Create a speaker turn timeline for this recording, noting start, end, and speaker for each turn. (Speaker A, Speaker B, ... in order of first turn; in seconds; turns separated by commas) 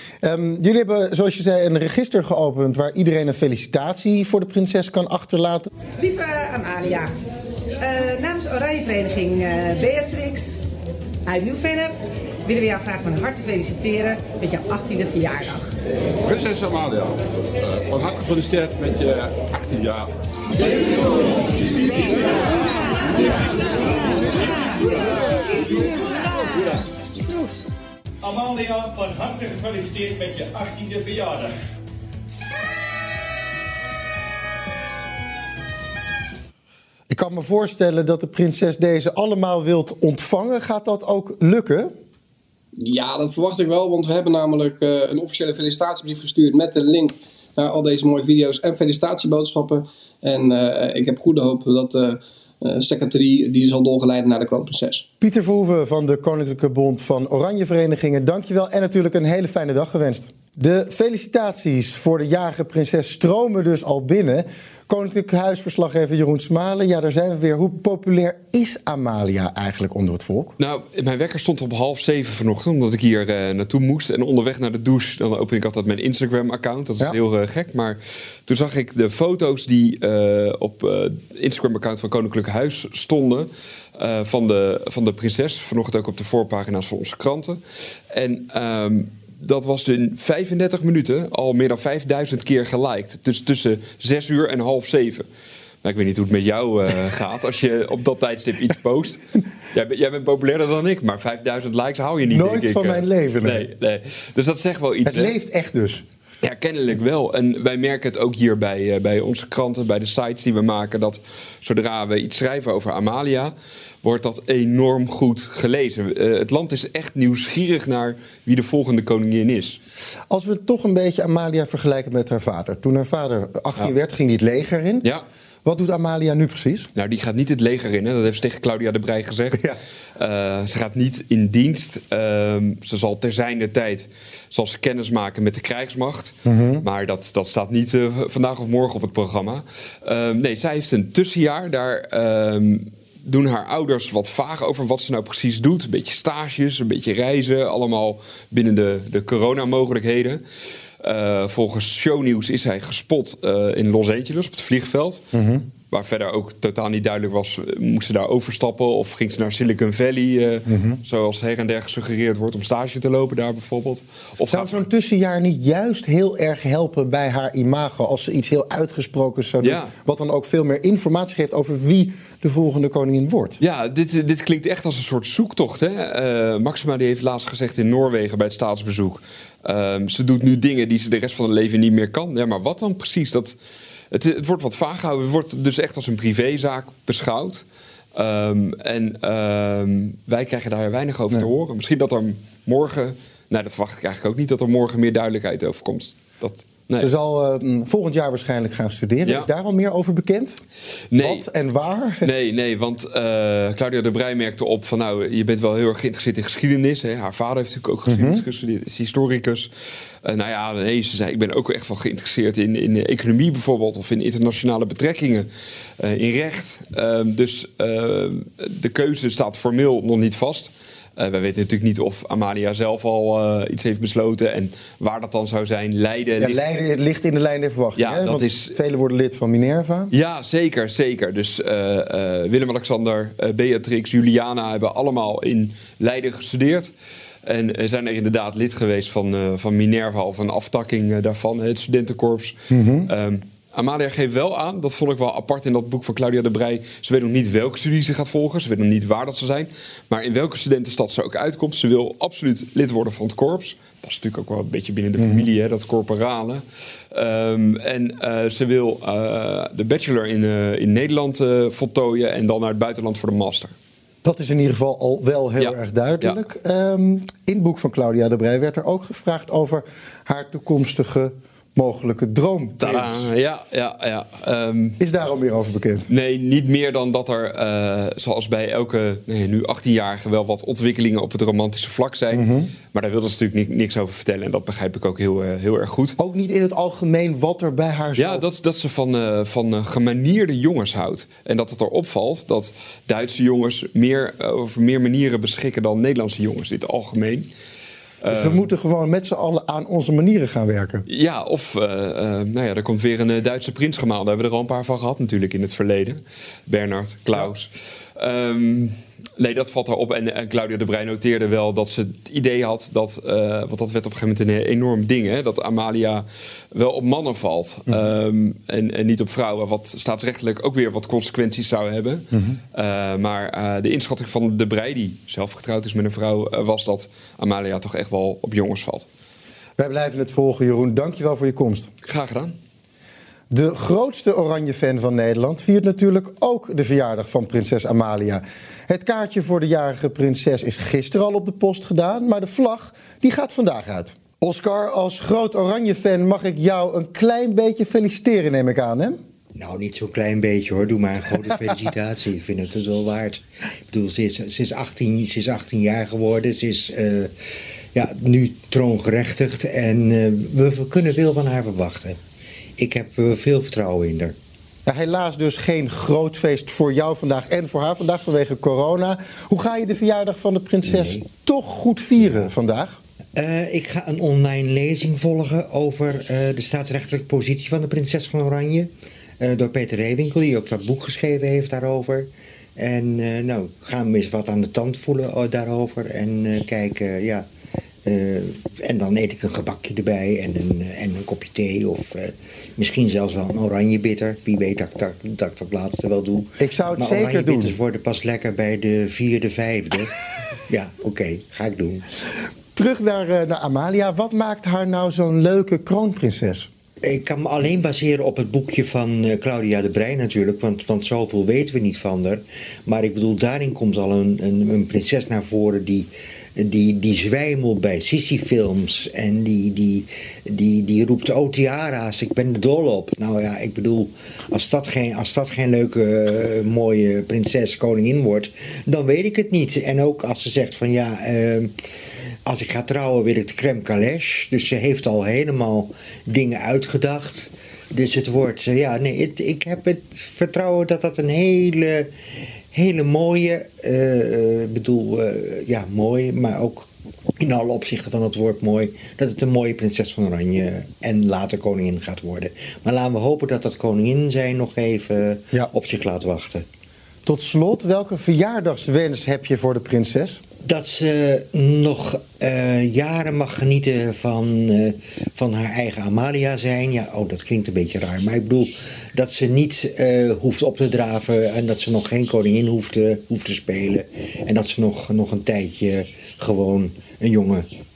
Speaker A: 0.2-5.7, Speaker B: 6.0-7.1, Speaker B: 7.8-10.6, Speaker B: 11.3-11.9, Speaker B: 12.4-15.7, Speaker C: 16.2-20.1, Speaker D: 28.2-31.5, Speaker A: 37.1-41.9, Speaker E: 42.8-55.0, Speaker A: 55.2-70.5, Speaker F: 70.6-87.6, Speaker F: 88.1-95.2, Speaker F: 95.8-105.3, Speaker A: 102.3-103.7, Speaker A: 105.0-106.0, Speaker F: 106.4-119.8, Speaker A: 120.3-125.1, Speaker A: 125.6-126.9, Speaker F: 126.9-129.7, Speaker F: 130.2-150.4, Speaker A: 136.4-136.8, Speaker F: 151.0-155.2, Speaker A: 155.3-155.7, Speaker F: 155.9-164.8, Speaker A: 160.7-161.0, Speaker A: 164.5-173.6, Speaker F: 169.6-169.9, Speaker F: 173.6-183.6, Speaker F: 184.1-187.6, Speaker F: 188.1-197.1, Speaker A: 197.0-200.6, Speaker F: 199.2-199.5, Speaker F: 201.1-201.4, Speaker A: 201.2-202.3, Speaker F: 202.2-209.7, Speaker A: 208.1-208.4, Speaker F: 210.2-215.5, Speaker F: 216.0-226.8, Speaker A: 226.4-230.1, Speaker F: 227.9-228.8, Speaker F: 230.1-236.9, Speaker F: 237.4-263.7, Speaker A: 242.7-243.1, Speaker A: 255.2-255.5, Speaker A: 264.2-273.3, Speaker F: 265.6-266.4, Speaker F: 272.8-275.0, Speaker A: 275.0-276.1, Speaker F: 276.1-286.1, Speaker A: 282.3-282.7, Speaker A: 286.2-288.4, Speaker F: 288.2-297.5, Speaker F: 298.2-298.7, Speaker A: 298.3-301.0, Speaker F: 301.1-329.1, Speaker A: 322.3-322.6, Speaker A: 329.8-331.9, Speaker F: 332.0-332.6, Speaker A: 333.5-349.2, Speaker G: 349.6-357.3, Speaker G: 357.9-362.2, Speaker G: 362.8-364.3, Speaker A: 364.9-373.0, Speaker G: 370.8-371.3, Speaker G: 373.4-387.4, Speaker G: 388.0-400.1, Speaker A: 396.6-397.8, Speaker G: 400.7-402.1, Speaker A: 402.8-406.7, Speaker G: 407.0-431.7, Speaker G: 432.4-442.1, Speaker G: 442.7-446.9, Speaker G: 447.4-456.6, Speaker A: 457.2-460.4, Speaker G: 460.6-477.6